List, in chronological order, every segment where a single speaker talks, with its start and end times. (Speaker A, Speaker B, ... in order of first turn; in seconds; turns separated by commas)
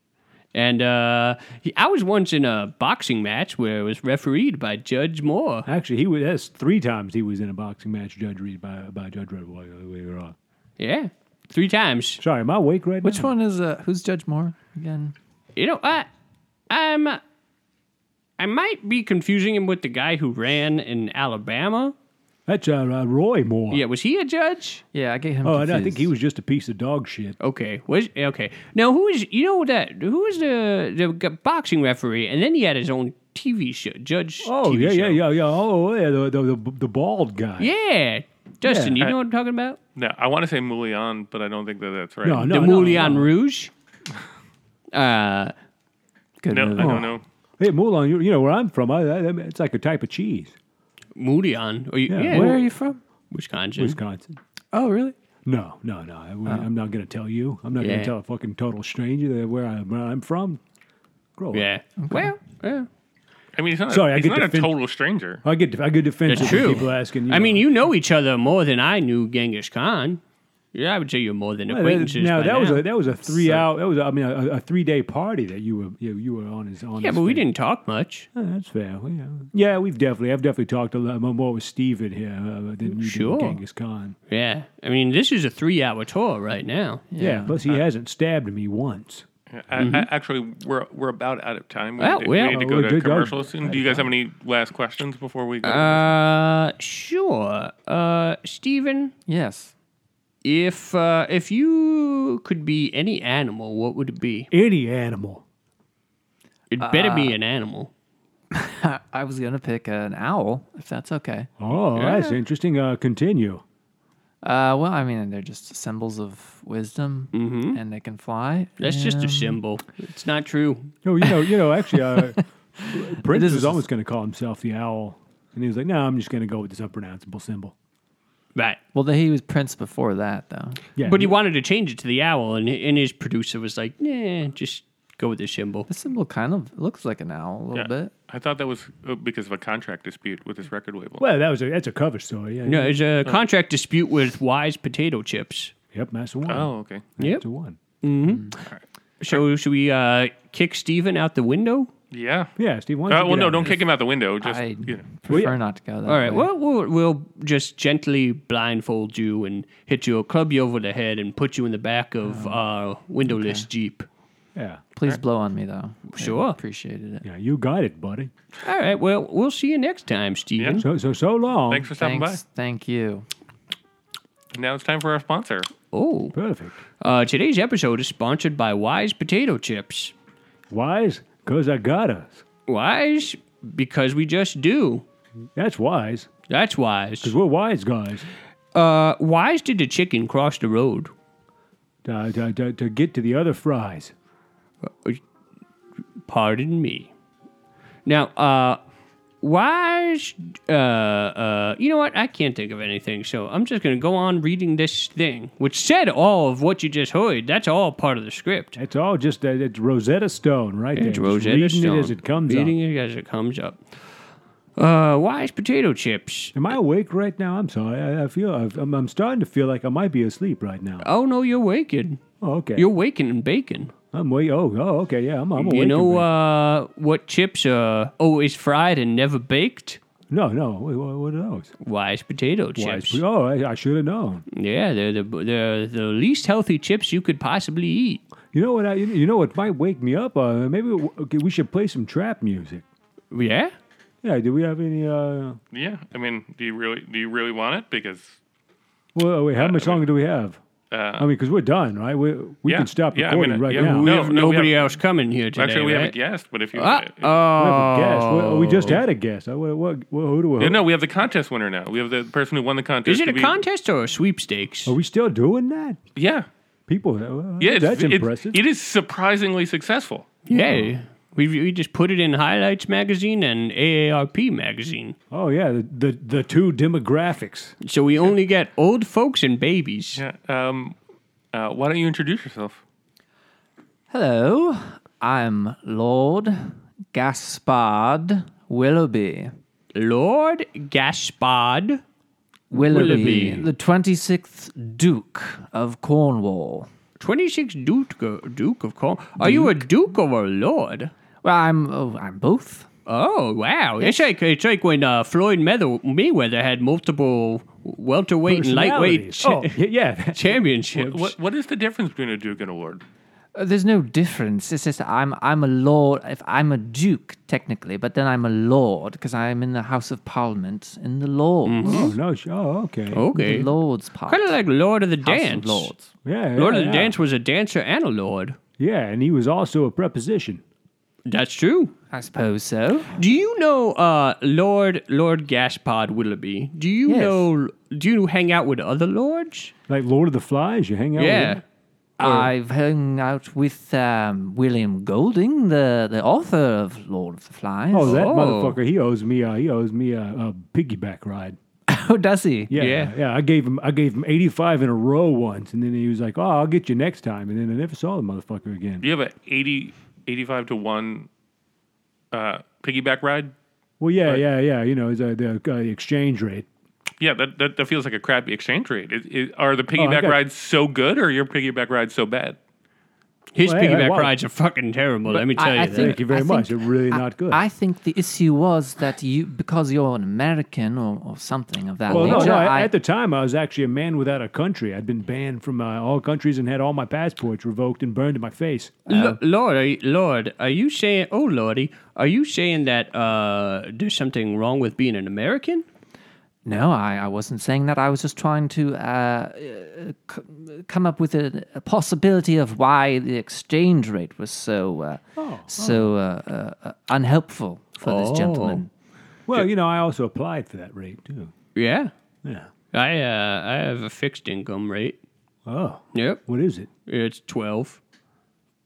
Speaker A: 0.5-5.7, Speaker B: 5.7-10.3, Speaker A: 10.8-12.2, Speaker B: 12.2-13.3, Speaker C: 13.0-15.1, Speaker A: 15.6-16.1, Speaker A: 16.7-17.2, Speaker A: 18.4-21.9, Speaker B: 22.5-23.8, Speaker A: 23.7-24.8, Speaker C: 24.9-26.1, Speaker B: 25.4-27.4, Speaker A: 27.4-35.2, Speaker B: 34.4-37.7, Speaker A: 37.6-39.8, Speaker B: 38.6-39.1, Speaker D: 40.0-42.6, Speaker B: 42.2-43.3, Speaker A: 42.4-43.7, Speaker A: 44.9-45.5, Speaker C: 46.4-47.1, Speaker D: 46.5-47.2, Speaker B: 46.8-50.5, Speaker A: 51.2-52.7, Speaker B: 52.1-52.6, Speaker C: 52.3-53.0, Speaker A: 53.3-54.0, Speaker B: 53.8-54.4, Speaker C: 54.7-55.2, Speaker B: 55.5-60.6, Speaker A: 57.8-58.1, Speaker B: 61.4-61.7, Speaker A: 61.5-62.9, Speaker C: 62.0-62.4, Speaker D: 63.6-65.4, Speaker B: 63.9-64.8, Speaker B: 65.4-67.7, Speaker A: 66.3-70.2, Speaker A: 70.7-73.7, Speaker B: 71.7-77.5, Speaker A: 77.0-78.3, Speaker B: 78.3-84.2, Speaker A: 82.9-83.6, Speaker A: 84.3-87.0, Speaker C: 87.1-87.6, Speaker B: 87.2-89.2, Speaker D: 89.5-96.1, Speaker A: 89.8-90.1, Speaker A: 92.0-92.7, Speaker B: 92.4-94.1, Speaker A: 95.6-99.1, Speaker C: 99.3-99.7, Speaker A: 100.4-104.5, Speaker B: 104.5-105.4, Speaker A: 106.7-107.9, Speaker C: 106.8-107.4, Speaker C: 108.5-111.5, Speaker B: 111.6-113.6, Speaker A: 112.0-112.4, Speaker C: 114.4-119.6, Speaker A: 117.3-117.8, Speaker A: 118.8-121.0, Speaker B: 121.0-127.7, Speaker C: 121.9-123.8, Speaker A: 128.6-128.8, Speaker C: 128.9-130.8, Speaker B: 131.0-131.4, Speaker A: 131.0-135.9, Speaker C: 135.9-138.1, Speaker D: 137.7-141.3, Speaker B: 141.2-143.0, Speaker A: 142.7-145.7, Speaker B: 145.9-147.8, Speaker D: 146.5-147.1, Speaker A: 148.0-148.6, Speaker C: 148.2-148.5, Speaker D: 148.6-149.4, Speaker A: 149.2-151.9, Speaker D: 152.1-152.5, Speaker B: 152.6-153.8, Speaker D: 153.1-155.1, Speaker C: 154.4-156.5, Speaker B: 155.3-155.6, Speaker A: 156.1-164.1, Speaker C: 162.2-162.6, Speaker C: 163.3-163.7, Speaker B: 164.6-164.8, Speaker C: 164.9-167.2, Speaker A: 166.1-166.6, Speaker B: 167.2-168.3, Speaker A: 168.6-170.8, Speaker D: 170.6-170.8, Speaker B: 170.8-171.9, Speaker D: 171.7-172.4, Speaker C: 172.0-173.3, Speaker D: 174.5-175.7, Speaker A: 175.9-176.3, Speaker B: 176.3-176.8, Speaker A: 177.0-180.1, Speaker B: 180.7-182.4, Speaker A: 182.7-185.0, Speaker B: 185.6-186.3, Speaker A: 186.5-187.3, Speaker B: 187.2-188.3, Speaker A: 188.7-191.1, Speaker B: 192.0-194.1, Speaker A: 194.8-195.2, Speaker A: 196.3-197.1, Speaker A: 198.1-198.8, Speaker A: 199.4-208.8, Speaker B: 208.8-212.8, Speaker A: 210.9-214.0, Speaker A: 214.8-216.6, Speaker B: 216.5-221.1, Speaker A: 221.0-222.2, Speaker B: 222.4-222.9, Speaker A: 222.8-223.9, Speaker B: 224.1-226.3, Speaker A: 225.6-230.0, Speaker B: 230.3-231.7, Speaker A: 231.8-233.2, Speaker B: 232.8-234.4, Speaker A: 234.5-238.2, Speaker B: 238.5-242.8, Speaker A: 243.3-243.7, Speaker B: 244.2-245.6, Speaker D: 245.7-248.4, Speaker B: 249.2-250.6, Speaker D: 249.6-250.0, Speaker D: 250.9-251.3, Speaker B: 251.2-254.4, Speaker D: 252.7-254.9, Speaker A: 253.7-256.1, Speaker D: 255.6-257.4, Speaker A: 256.7-259.0, Speaker B: 257.6-260.9, Speaker D: 260.6-263.6, Speaker A: 263.1-264.9, Speaker B: 264.9-266.0, Speaker D: 266.2-266.5, Speaker B: 266.9-268.6, Speaker D: 267.6-270.3, Speaker A: 270.5-275.2, Speaker B: 270.6-270.9, Speaker B: 275.3-277.8, Speaker A: 277.8-280.2, Speaker D: 280.1-281.0, Speaker D: 281.5-282.8, Speaker C: 284.1-289.5, Speaker A: 289.9-292.0, Speaker C: 292.7-296.9, Speaker A: 292.8-293.7, Speaker B: 292.9-293.6, Speaker A: 297.2-301.1, Speaker C: 299.4-299.8, Speaker C: 301.4-302.9, Speaker A: 303.1-309.8, Speaker C: 304.0-304.3, Speaker B: 308.4-310.5, Speaker A: 310.3-311.3, Speaker D: 310.9-313.0, Speaker C: 313.6-322.1, Speaker A: 321.7-322.2, Speaker B: 321.8-323.3, Speaker A: 323.1-323.7, Speaker C: 323.3-324.6, Speaker A: 324.3-325.9, Speaker C: 325.2-326.1, Speaker B: 326.2-327.2, Speaker A: 326.6-328.6, Speaker B: 328.8-330.6, Speaker A: 331.3-331.9, Speaker C: 332.1-333.1, Speaker A: 333.2-339.7, Speaker C: 337.1-337.5, Speaker B: 339.9-341.6, Speaker A: 341.2-341.6, Speaker C: 342.2-348.2, Speaker A: 342.2-342.5, Speaker B: 347.9-351.6, Speaker A: 348.0-348.8, Speaker C: 351.9-352.7, Speaker B: 352.7-359.1, Speaker A: 352.8-353.1, Speaker D: 359.0-361.3, Speaker D: 362.3-363.5, Speaker B: 364.0-366.7, Speaker D: 367.2-372.6, Speaker B: 369.9-370.4, Speaker A: 373.6-376.2, Speaker B: 373.6-374.4, Speaker C: 375.3-382.9, Speaker B: 375.8-377.6, Speaker A: 382.1-382.6, Speaker B: 382.1-389.0, Speaker A: 389.1-395.9, Speaker C: 389.1-389.4, Speaker C: 396.6-408.9, Speaker B: 405.4-406.1, Speaker A: 408.0-408.8, Speaker B: 409.5-411.5, Speaker A: 411.8-412.1, Speaker B: 412.4-412.7, Speaker A: 412.9-415.2, Speaker B: 415.6-416.9, Speaker A: 416.1-416.4, Speaker A: 417.1-418.0